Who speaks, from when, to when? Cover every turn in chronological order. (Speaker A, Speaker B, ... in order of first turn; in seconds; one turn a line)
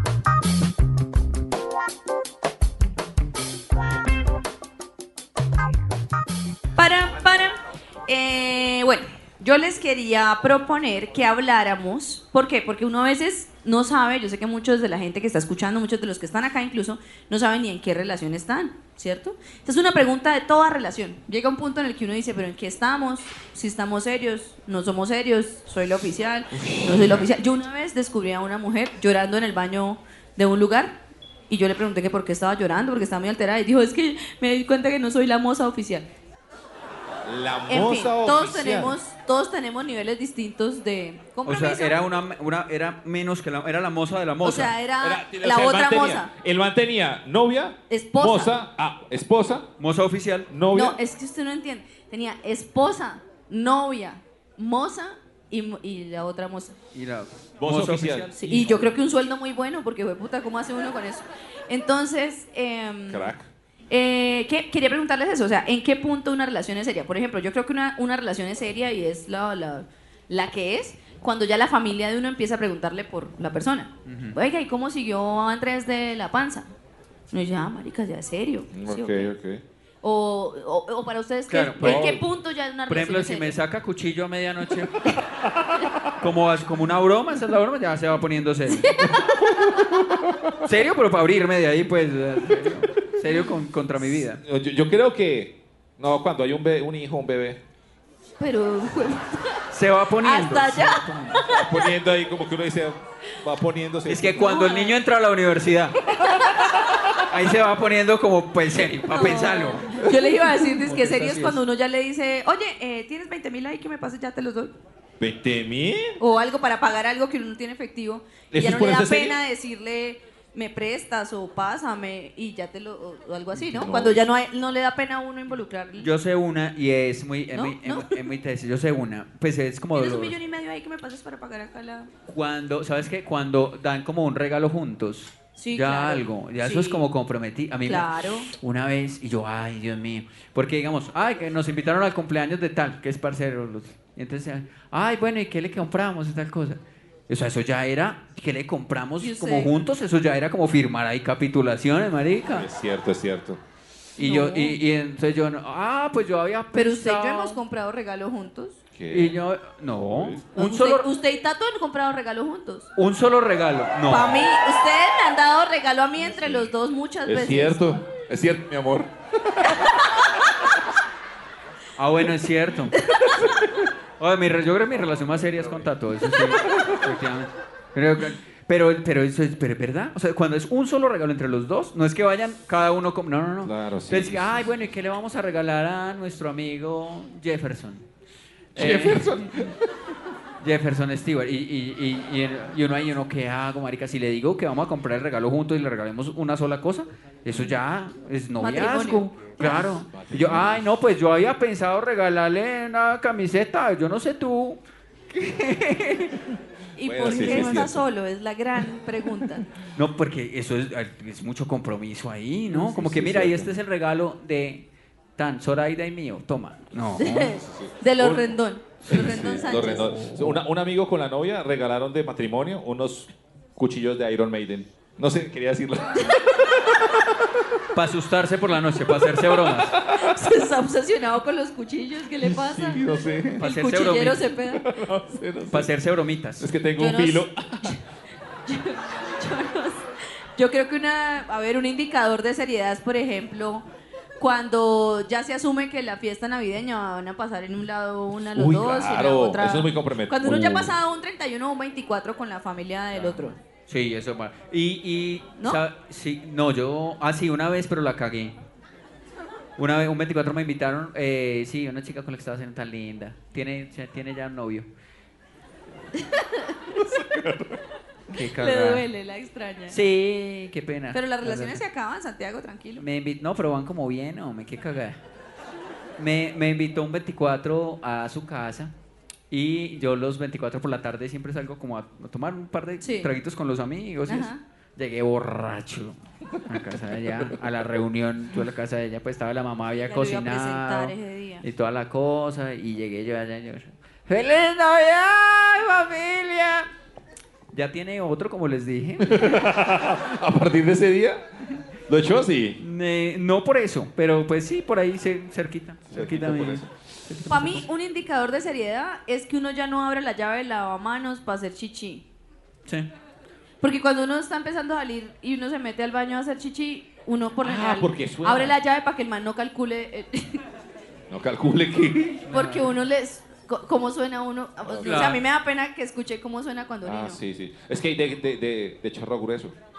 Speaker A: 6.8-31.0
Speaker B: 26.5-27.3
Speaker A: 31.5-36.0
Speaker B: 37.2-39.0
Speaker A: 37.7-42.0
Speaker C: 41.5-44.8
Speaker A: 44.4-46.3
Speaker B: 45.0-49.7
Speaker A: 47.9-48.5
Speaker C: 49.8-50.5
Speaker B: 50.5-51.0
Speaker A: 50.7-56.8
Speaker C: 56.9-58.7
Speaker B: 57.6-58.9
Speaker A: 58.4-63.3
Speaker B: 63.1-63.5
Speaker A: 63.9-76.7
Speaker C: 74.0-74.3
Speaker A: 77.3-79.3
Speaker B: 78.7-79.6
Speaker A: 80.0-83.5
Speaker C: 81.5-82.2
Speaker B: 81.8-82.2
Speaker C: 82.9-85.1
Speaker C: 86.2-88.9
Speaker A: 88.7-89.3
Speaker B: 89.1-90.6
Speaker C: 90.6-94.4
Speaker B: 94.2-97.6
Speaker A: 98.4-99.6
Speaker C: 99.7-101.4
Speaker A: 100.2-101.9
Speaker B: 101.5-104.5
Speaker C: 104.0-106.0
Speaker A: 104.4-105.0
Speaker A: 106.1-106.7
Speaker C: 107.2-111.6
Speaker A: 109.1-114.7
Speaker B: 115.2-116.2
Speaker A: 116.2-126.1
Speaker B: 118.5-119.4
Speaker B: 123.8-124.2
Speaker C: 126.0-130.3
Speaker A: 127.5-128.2
Speaker A: 129.9-132.1
Speaker C: 132.3-152.7
Speaker A: 135.6-137.0
Speaker A: 137.8-138.5
Speaker A: 149.2-149.7
Speaker B: 152.4-153.6
Speaker A: 154.2-154.8
Speaker C: 154.2-157.6
Speaker A: 156.7-158.8
Speaker B: 158.9-159.4
Speaker C: 159.1-161.1
Speaker B: 160.1-160.4
Speaker A: 160.5-162.9
Speaker C: 162.9-164.4
Speaker A: 164.1-167.8
Speaker B: 166.2-166.7
Speaker B: 167.2-170.2
Speaker C: 172.0-173.0
Speaker A: 172.9-173.4
Speaker B: 173.3-173.7
Speaker C: 174.2-188.1
Speaker B: 183.6-184.8
Speaker C: 188.7-189.5
Speaker B: 188.7-189.8
Speaker C: 190.6-204.8
Speaker A: 198.6-199.9
Speaker B: 200.1-200.9
Speaker C: 205.3-206.4
Speaker A: 206.9-209.7
Speaker B: 207.0-208.0
Speaker C: 207.3-207.7
Speaker C: 209.9-214.8
Speaker B: 212.7-213.7
Speaker C: 215.4-217.6
Speaker A: 217.2-220.1
Speaker B: 217.6-218.5
Speaker B: 219.1-227.8
Speaker C: 219.1-220.6
Speaker A: 226.2-226.7
Speaker C: 227.9-229.9
Speaker B: 229.2-230.5
Speaker A: 230.1-233.0
Speaker B: 232.4-233.6
Speaker C: 233.6-234.5
Speaker A: 233.6-234.8
Speaker B: 234.7-235.9
Speaker C: 235.7-236.7
Speaker B: 236.6-237.9
Speaker A: 237.0-238.0
Speaker A: 238.7-243.8
Speaker A: 244.4-253.6
Speaker B: 248.5-250.9
Speaker C: 253.1-258.5
Speaker C: 259.8-264.9
Speaker A: 266.1-266.8
Speaker B: 266.9-267.8
Speaker C: 268.3-269.1
Speaker A: 268.4-270.0
Speaker C: 269.9-271.8
Speaker A: 271.1-273.0
Speaker C: 273.0-275.2
Speaker C: 276.2-278.9
Speaker C: 279.5-296.9
Speaker A: 283.0-283.3
Speaker A: 284.3-284.6
Speaker A: 290.1-291.6
Speaker C: 297.7-299.6
Speaker B: 299.2-301.4
Speaker B: 302.1-302.8
Speaker C: 302.8-307.8
Speaker B: 306.1-306.9
Speaker A: 307.5-312.2
Speaker A: 313.8-320.6
Speaker B: 317.6-318.8
Speaker B: 321.3-322.4
Speaker C: 322.4-322.9
Speaker A: 322.5-327.4
Speaker B: 324.9-325.3
Speaker C: 325.0-325.4
Speaker B: 327.0-329.7